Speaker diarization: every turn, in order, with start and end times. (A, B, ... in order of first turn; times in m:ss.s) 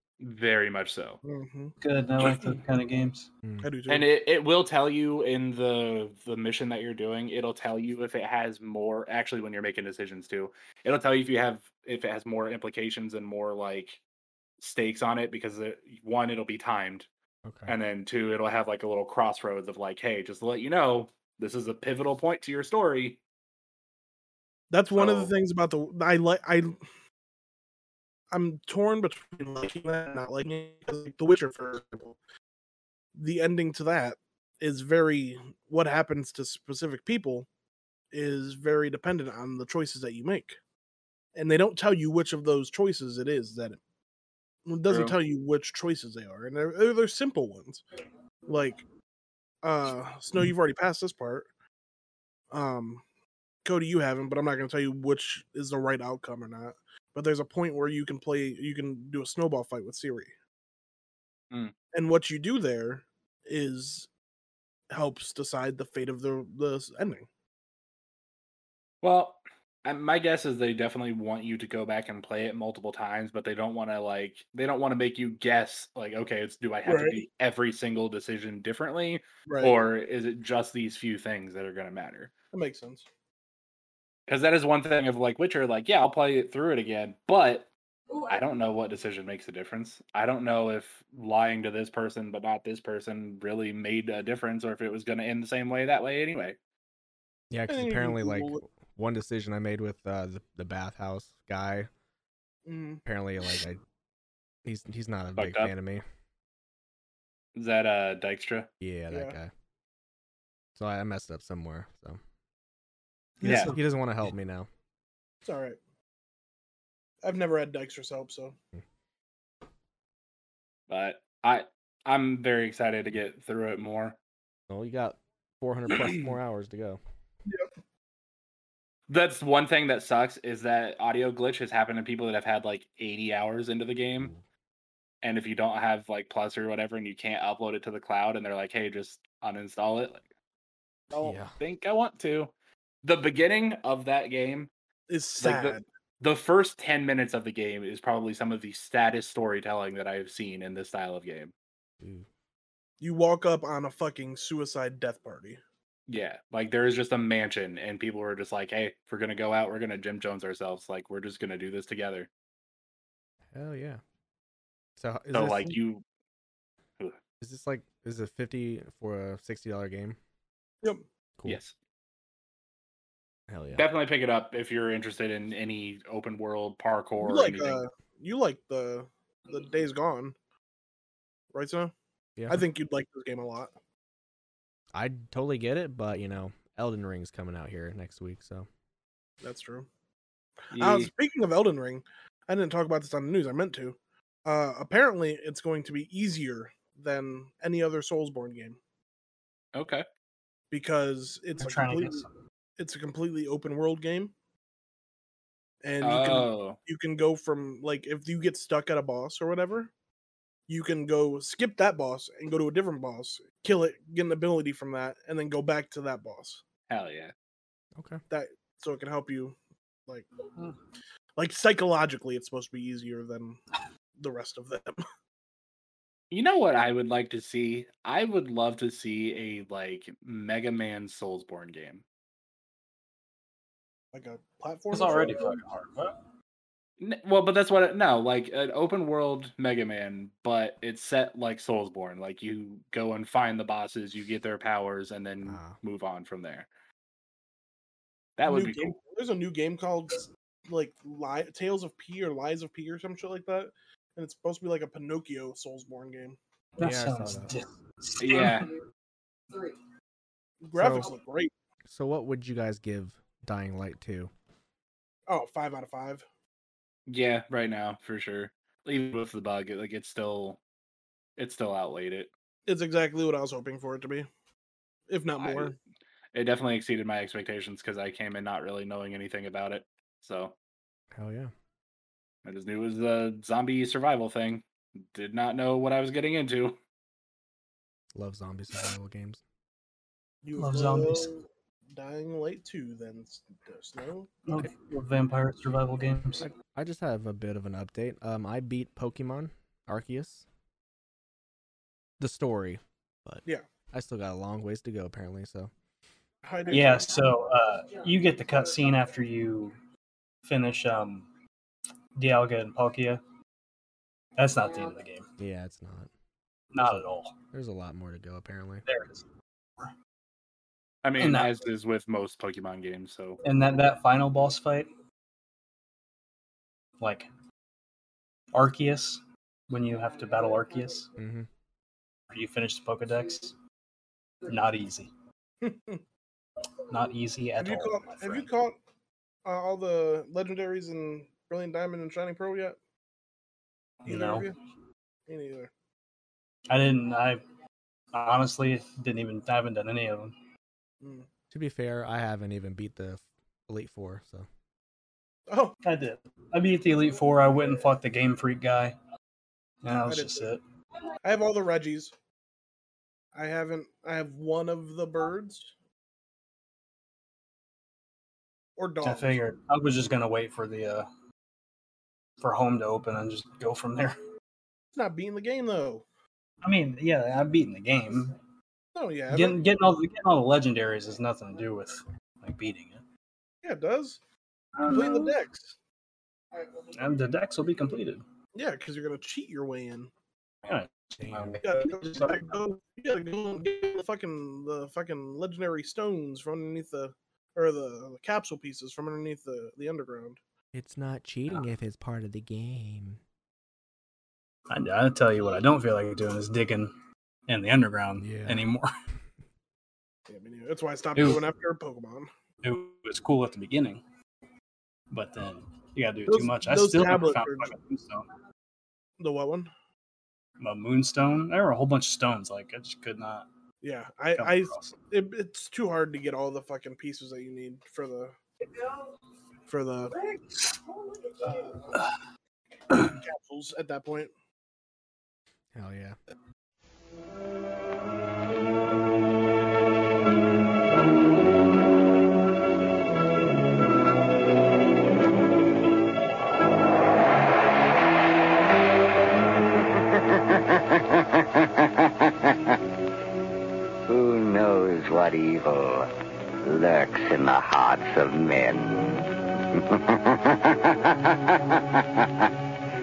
0:00.2-0:01.2 A
0:01.2-0:01.7 B
0:01.8-0:03.3 C
0:03.4-0:03.7 D
0:03.6-0:04.1 B
0:03.9-0:14.0 A
0:14.6-0:17.1 A
0:17.4-0:17.7 D
0:17.7-0:23.2 A
0:24.7-0:26.8 B
0:25.0-0:25.3 A
0:28.3-0:32.2 B
0:33.1-0:37.5 B
0:38.1-0:40.6 B
0:41.3-0:43.8 B
0:44.7-0:47.8 B
0:44.9-0:45.2 A
0:48.5-0:48.8 B
0:49.6-0:51.5 B
0:52.5-0:53.0 B
0:53.6-1:00.3 B
1:01.9-1:04.1 B
1:04.9-1:07.3 B
1:09.0-1:22.3 A
1:16.8-1:17.2 B
1:19.5-1:19.7 B
1:22.5-1:23.0 B
1:24.3-1:27.7 A
1:28.2-1:36.6 A
1:37.5-1:41.9 D
1:37.7-1:38.6 B
1:42.6-1:43.0 B
1:43.0-1:43.8 D
1:44.6-1:46.0 D
1:45.4-1:45.7 A
1:47.5-1:48.7 A
1:48.8-1:49.5 D
1:49.1-1:49.4 B
1:50.8-1:52.2 D
1:53.4-1:53.8 C
1:53.4-1:54.7 D
1:53.4-1:53.7 A
1:55.4-1:55.8 B
1:57.2-1:58.6 B
2:00.9-2:04.2 A
2:04.7-2:07.0 D
2:09.1-2:14.3 A
2:15.2-2:20.2 A
2:21.1-2:21.5 D
2:21.6-2:22.5 A
2:23.0-2:24.7 A
2:25.1-2:25.8 B
2:25.4-2:31.5 A
2:32.0-2:32.3 D
2:33.0-2:35.6 B
2:36.1-2:42.3 A
2:43.5-2:44.0 D
2:45.0-2:45.8 D
2:45.3-2:46.0 A
2:47.4-2:50.2 D
2:51.4-2:51.7 A
2:53.5-2:53.8 D
2:53.7-2:57.8 A
2:57.2-3:00.3 B
3:01.5-3:01.9 B
3:02.4-3:02.6 D
3:02.5-3:03.7 B
3:04.9-3:08.7 D
3:09.4-3:09.9 B
3:10.7-3:11.1 A
3:10.7-3:18.8 B
3:19.7-3:20.0 A
3:20.7-3:22.2 B
3:21.6-3:22.3 C
3:22.8-3:24.3 B
3:25.8-3:29.9 B
3:26.0-3:26.8 A
3:30.7-3:36.6 B
3:36.9-3:37.3 A
3:38.0-3:38.2 D
3:38.3-3:39.5 B
3:41.4-3:43.6 B
3:44.2-3:45.0 B
3:46.3-3:52.0 A
3:54.1-3:55.5 B
3:54.9-3:56.2 C
3:57.0-4:06.7 A
4:05.4-4:05.8 D
4:08.4-4:09.0 A
4:08.5-4:16.4 B
4:16.8-4:18.8 C
4:16.8-4:17.5 D
4:18.2-4:18.7 A
4:20.6-4:21.5 B
4:20.7-4:21.1 D
4:21.8-4:24.3 D
4:25.3-4:26.2 B
4:27.1-4:30.6 A
4:31.4-4:32.3 A
4:32.7-4:34.3 B
4:35.1-4:35.7 B
4:35.4-4:35.7 A
4:36.3-4:40.5 A
4:41.1-4:41.5 D
4:42.4-4:46.8 A
4:48.1-4:49.4 D
4:50.4-4:51.4 B
4:50.6-4:51.3 C
4:51.9-4:54.4 B
4:54.4-4:56.5 C
4:56.4-5:00.4 D
5:02.2-5:05.7 D
5:06.4-5:07.1 B
5:06.7-5:09.8 C
5:10.4-5:11.3 C
5:12.2-5:13.2 C
5:14.4-5:15.3 C
5:15.4-5:16.1 D
5:16.7-5:17.4 C
5:16.8-5:18.8 D
5:18.8-5:19.2 C
5:21.0-5:23.4 A
5:21.2-5:21.6 C
5:23.4-5:24.9 C
5:27.0-5:27.3 C
5:28.5-5:31.1 C
5:31.2-5:31.5 D
5:32.3-5:33.6 C
5:34.4-5:35.1 C
5:35.6-5:36.0 B
5:36.8-5:38.5 C
5:37.6-5:38.8 B
5:39.4-5:42.8 B
5:44.0-5:44.5 C
5:44.1-5:44.5 B
5:45.3-5:45.7 B
5:46.7-5:47.4 C
5:48.1-5:50.4 C
5:51.0-5:51.3 B
5:51.5-5:54.5 D
5:55.5-5:55.8 B
5:55.8-5:59.0 C
5:59.8-6:00.6 C
6:00.0-6:00.5 B
6:01.2-6:02.1 B
6:03.3-6:05.7 B
6:08.8-6:09.4 B
6:09.0-6:11.1 C
6:12.4-6:14.2 C
6:14.9-6:16.0 B
6:16.6-6:18.3 C
6:18.9-6:19.6 B
6:19.3-6:23.0 C
6:23.6-6:24.2 B
6:24.8-6:25.4 C
6:24.9-6:25.7 B
6:26.8-6:28.2 C
6:28.5-6:30.1 B
6:30.6-6:32.6 C
6:31.2-6:31.6 D
6:31.6-6:40.4 B
6:40.7-6:43.2 D
6:44.7-6:46.9 C
6:47.5-6:48.9 C
6:48.2-6:48.6 D
6:50.3-6:52.3 B
6:51.2-6:51.4 C
6:52.6-6:54.0 C
6:55.1-6:58.3 C
6:56.3-6:57.7 B
6:59.2-6:59.7 B
7:00.6-7:03.5 C
7:03.8-7:08.3 B
7:04.4-7:05.0 C
7:09.7-7:10.1 B
7:10.3-7:10.8 C
7:11.4-7:11.9 B
7:11.9-7:12.1 C
7:12.9-7:13.2 C
7:13.0-7:14.3 B
7:15.7-7:16.2 D
7:29.8-7:32.8 E
7:34.1-7:36.1 E
7:36.6-7:42.4 E